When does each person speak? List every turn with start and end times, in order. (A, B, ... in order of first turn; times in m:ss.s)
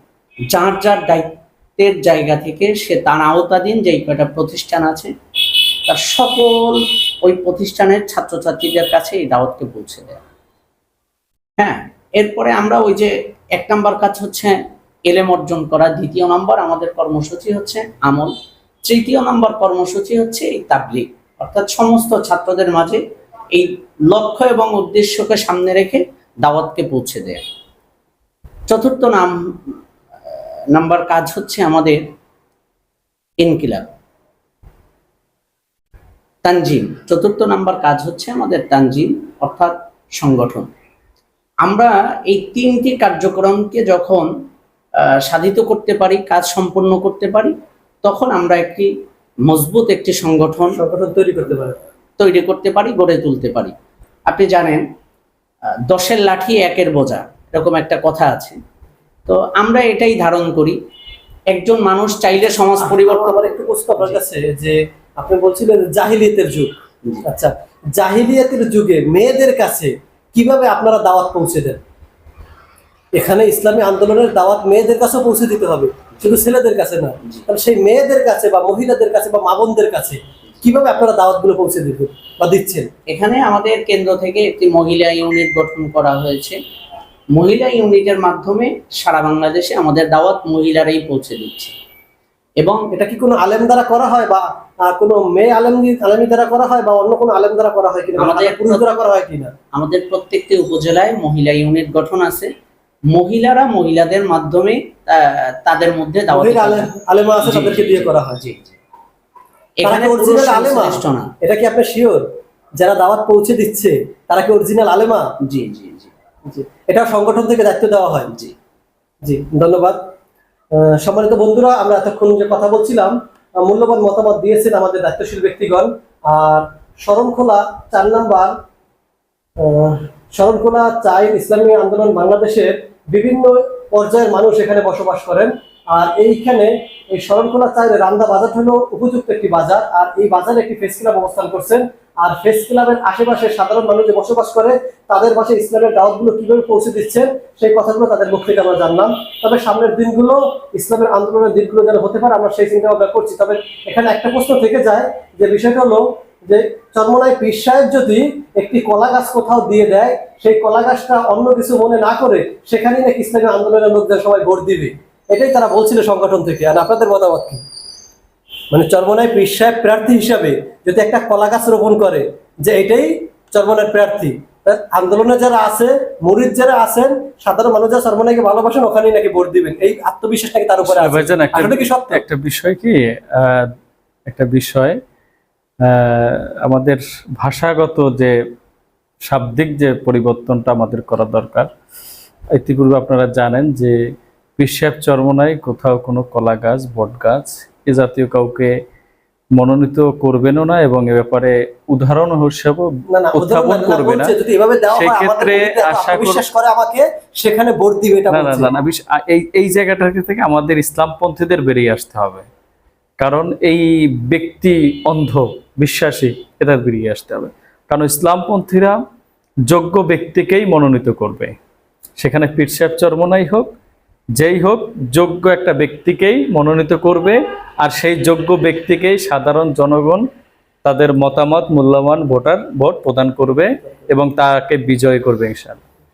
0:00.5-0:05.1 A
0:05.9-0:10.2 A
0:11.6-0:18.3 A
0:18.9-0:23.0 A
0:23.5-0:27.4 A
0:28.7-0:29.7 A
0:30.3-0:32.0 A
0:33.4-0:33.9 A
0:36.4-0:40.7 A
0:41.6-0:44.3 A
0:45.3-0:47.5 A
0:48.0-0:48.9 A
0:49.5-0:50.8 A
0:50.7-0:51.8 B
0:52.2-0:53.7 A
0:54.3-0:54.8 A
0:55.9-0:58.6 A
0:59.3-1:00.8 A
1:01.5-1:04.2 A
1:02.8-1:06.7 B
1:07.2-1:11.8 B
1:13.1-1:22.9 B
1:23.1-1:26.6 A
1:27.3-1:31.7 A
1:32.6-1:32.9 A
1:32.9-1:39.5 B
1:38.2-1:38.9 A
1:39.7-1:42.5 A
1:43.1-1:46.9 A
1:46.3-1:48.4 B
1:47.4-1:48.8 A
1:49.8-1:51.3 A
1:49.8-1:52.2 B
1:52.8-1:55.2 B
1:55.5-1:56.1 A
1:56.5-1:58.3 B
1:59.2-2:00.0 B
2:00.7-2:08.5 B
2:09.6-2:47.6 B
2:48.7-3:02.2 B
3:00.8-3:03.7 C
3:04.3-3:05.0 C
3:05.8-3:08.3 C
3:09.3-3:11.7 C
3:12.5-3:14.0 C
3:14.6-3:18.7 C
3:19.6-3:24.3 C
3:23.1-3:28.7 B
3:24.9-3:26.5 C
3:28.3-3:32.5 C
3:33.2-3:39.0 C
3:39.7-3:41.5 C
3:42.2-3:43.7 C
3:44.4-3:50.2 C
3:50.8-3:55.8 C